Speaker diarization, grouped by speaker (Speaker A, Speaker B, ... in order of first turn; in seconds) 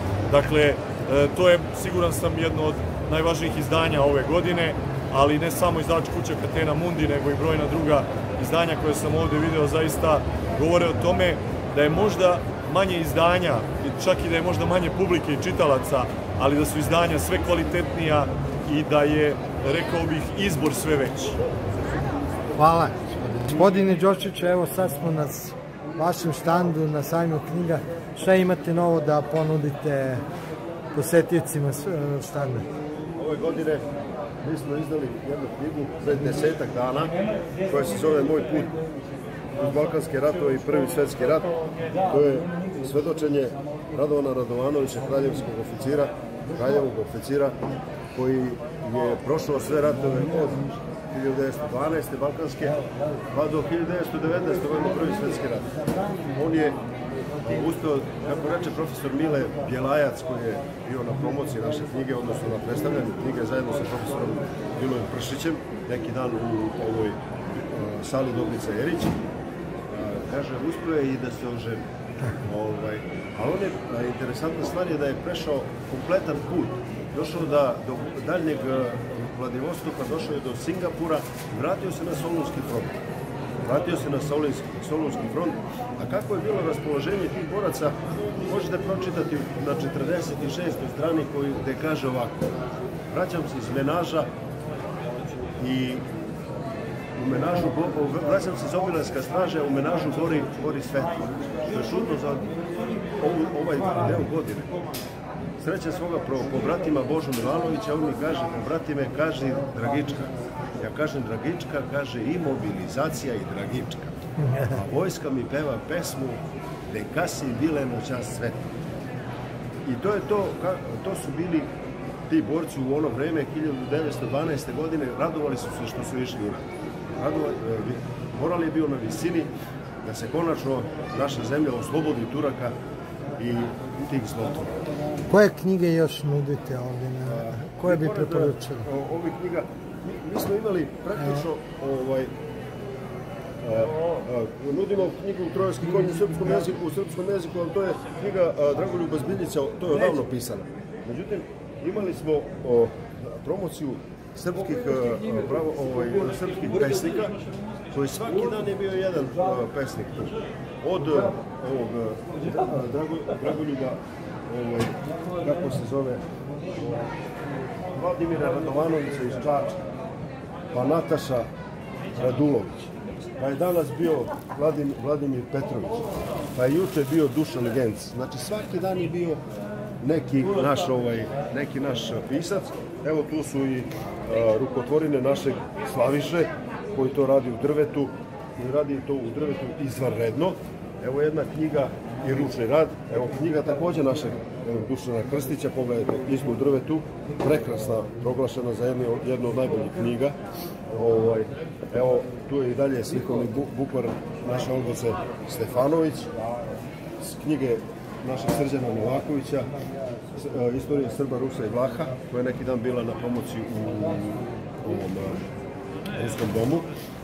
Speaker A: 0.3-21.4
Speaker B: 22.6-30.2, 30.9-32.7, 114.4-114.8, 135.3-138.9, 141.2-141.4
Speaker C: 33.2-33.9, 34.4-38.8, 39.5-41.5, 42.0-47.6, 48.1-52.8, 53.3-56.8, 57.4-69.2, 69.9-71.8, 72.4-83.0, 83.6-92.6, 93.1-94.3, 95.6-96.1, 97.2-102.6, 103.2-104.7, 105.6-114.2, 114.7-118.7, 119.8-121.7, 122.3-132.8, 133.4-134.8, 137.2-142.3, 143.6-157.4, 157.9-166.2, 167.9-169.8, 170.7-171.5, 172.2-176.0, 176.5-179.4, 180.0-200.4, 200.9-206.3, 207.2-209.7, 210.3-215.5, 216.1-216.9